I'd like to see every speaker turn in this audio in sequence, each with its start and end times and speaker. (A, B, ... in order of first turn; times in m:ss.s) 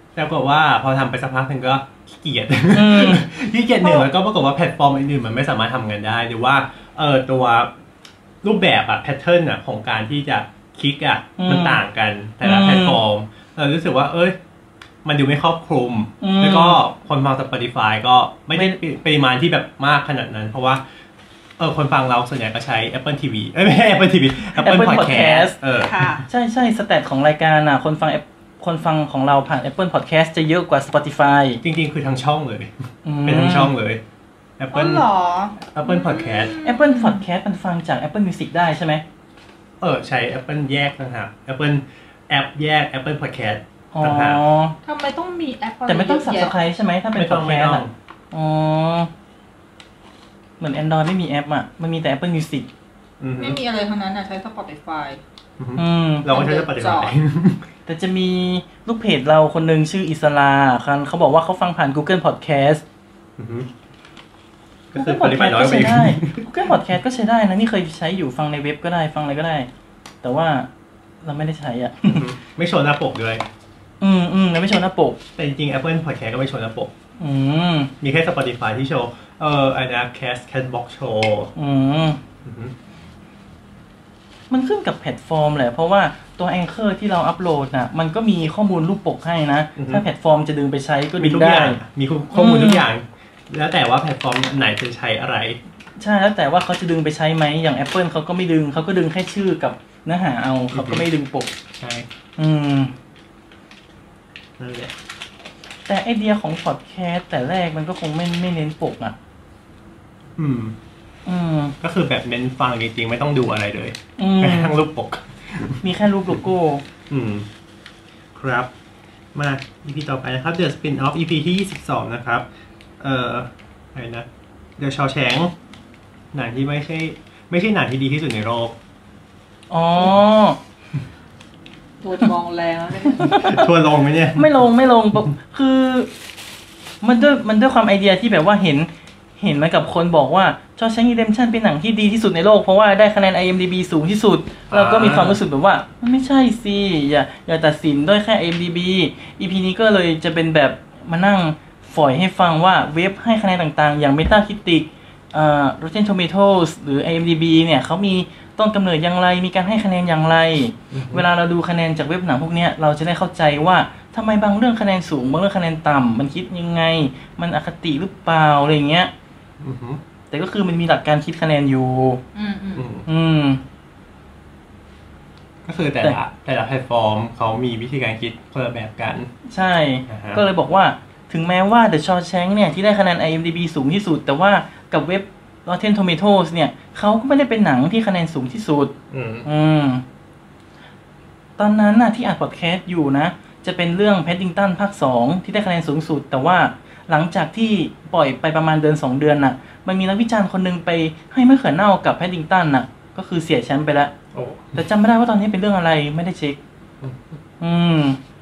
0:00.2-0:07.7 A
0:02.7-0:03.2 B
0:03.8-0:04.1 C
0:08.4-0:14.4 A
0:11.4-0:11.8 B
0:12.4-0:13.0 B
0:15.0-0:20.8 A
0:16.2-0:16.8 B
0:21.6-0:26.0 A
0:24.6-0:25.6 B
0:25.8-0:26.3 C
0:26.3-0:31.6 B
0:31.6-0:32.7 A
0:33.0-0:33.7 B
0:33.2-0:34.0 A
0:34.6-0:35.0 A
0:34.7-0:37.2 C
0:35.6-0:36.5 A
0:36.6-0:39.0 B
0:39.8-0:44.4 A
0:43.9-0:44.8 B
0:44.8-0:46.5 C
0:45.9-0:49.1 B
0:47.1-0:47.9 A
0:50.6-0:52.7 B
0:53.2-0:53.6 A
0:53.4-0:55.2 C
0:55.6-0:57.6 A
0:55.8-0:56.3 B
0:56.3-0:57.1 C
0:57.8-1:02.8 B
1:03.4-1:03.7 A
1:04.9-1:06.4 A
1:04.9-1:09.7 B
1:10.2-1:10.7 B
1:11.2-1:12.3 B
1:12.1-1:13.4 A
1:14.0-1:15.2 B
1:15.4-1:16.9 A
1:17.2-1:17.9 B
1:18.0-1:21.5 A
1:21.6-1:22.2 B
1:22.4-1:22.7 A
1:24.5-1:31.8 B
1:29.8-1:30.0 A
1:31.2-1:35.6 A
1:32.3-1:32.8 B
1:36.0-1:41.5 B
1:40.7-1:41.0 A
1:41.8-1:42.1 A
1:42.4-1:42.9 B
1:44.6-1:44.9 A
1:45.9-1:49.1 B
1:50.4-1:50.8 A
1:51.2-1:51.7 B
1:51.8-1:55.8 A
1:54.2-1:54.8 B
1:55.8-1:56.8 B
1:57.1-1:57.5 A
1:58.3-1:58.7 A
1:59.3-2:02.4 A
2:03.0-2:04.3 A
2:04.8-2:05.5 A
2:06.3-2:08.7 A
2:09.7-2:10.6 B
2:12.0-2:13.5 C
2:13.2-2:13.6 B
2:13.2-2:14.5 A
2:14.4-2:16.1 B
2:17.0-2:18.9 B
2:19.4-2:49.1 B
2:24.7-2:25.4 A
2:40.9-2:41.2 A
2:49.6-2:50.0 A
2:50.3-2:52.2 B
2:52.3-2:52.8 C
2:52.8-2:53.1 A
2:53.0-2:53.6 B
2:55.6-2:59.3 A
2:59.5-3:08.9 B
3:00.1-3:00.4 A
3:09.1-3:09.5 A
3:09.4-3:10.0 B
3:11.6-3:24.1 B
3:24.3-3:24.8 A
3:24.7-3:26.6 B
3:27.0-3:27.4 A
3:27.6-3:28.2 B